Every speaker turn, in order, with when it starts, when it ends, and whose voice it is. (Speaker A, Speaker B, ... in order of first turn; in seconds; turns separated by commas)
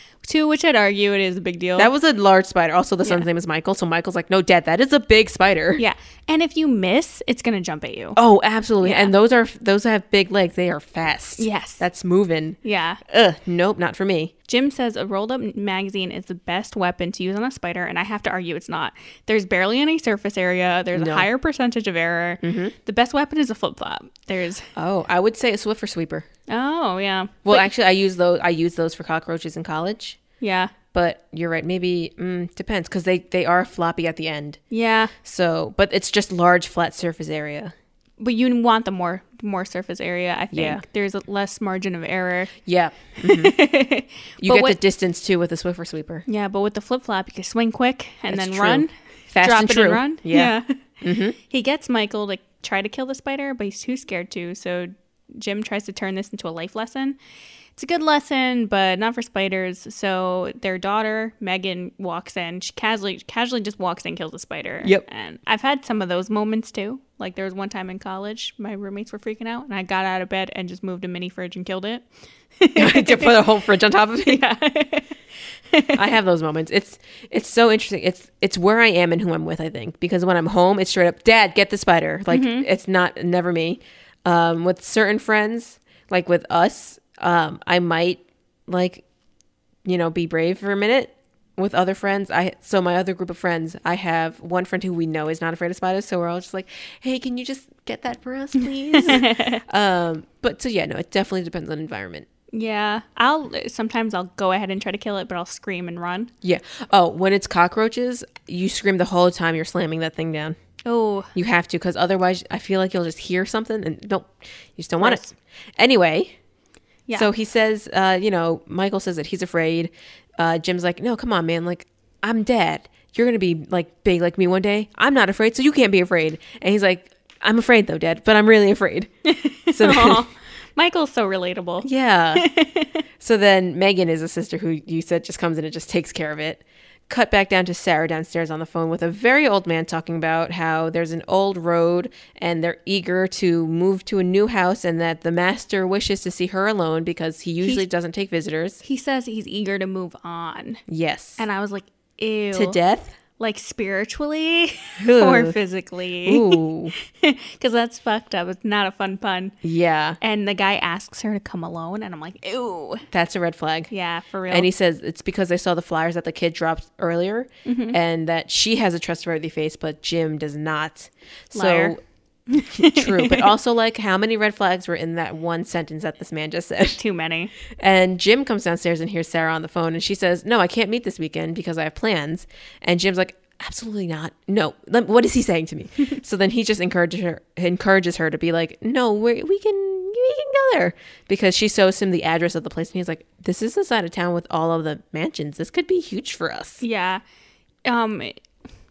Speaker A: 0.2-1.9, Speaker B: 1.8-5.8, Speaker A: 5.8-8.2, Speaker B: 8.2-14.3, Speaker A: 8.8-9.1, Speaker A: 11.4-11.8, Speaker A: 12.6-13.0, Speaker A: 14.5-24.7, Speaker B: 20.9-21.3, Speaker B: 22.4-22.7, Speaker B: 24.8-26.2, Speaker A: 26.5-27.7, Speaker B: 27.4-30.2, Speaker A: 30.4-30.7, Speaker B: 30.9-34.6, Speaker A: 34.7-35.1, Speaker B: 35.2-37.7, Speaker A: 38.2-42.5, Speaker B: 40.5-40.8, Speaker B: 42.6-43.6, Speaker A: 43.2-44.8, Speaker B: 44.4-46.2, Speaker A: 46.2-50.7, Speaker B: 48.3-51.4, Speaker A: 51.4-57.1, Speaker A: 57.8-72.0, Speaker A: 72.6-73.5, Speaker B: 72.8-74.4, Speaker A: 74.2-75.2, Speaker A: 75.7-76.0, Speaker B: 75.9-89.0, Speaker A: 82.3-82.7, Speaker B: 89.8-102.3, Speaker A: 98.9-99.6, Speaker A: 102.5-106.3, Speaker B: 106.4-110.5, Speaker A: 110.8-111.3, Speaker B: 111.3-115.2, Speaker A: 115.0-115.3, Speaker B: 115.8-116.3, Speaker B: 117.1-129.1, Speaker A: 129.2-133.0, Speaker B: 129.7-130.2, Speaker B: 131.8-132.4, Speaker B: 133.2-148.8, Speaker A: 148.8-150.8, Speaker B: 150.9-151.4, Speaker A: 151.4-152.8, Speaker B: 152.5-153.2, Speaker A: 153.4-159.5, Speaker B: 155.0-155.5, Speaker B: 156.2-156.9, Speaker B: 159.6-160.2, Speaker A: 160.2-163.0, Speaker B: 163.1-163.9, Speaker A: 163.9-164.7, Speaker B: 164.5-172.0, Speaker A: 167.7-168.0, Speaker A: 171.5-171.9, Speaker A: 172.5-173.5, Speaker B: 172.7-177.0, Speaker A: 177.0-177.5, Speaker B: 177.7-196.8, Speaker A: 196.8-197.2, Speaker A: 197.8-198.3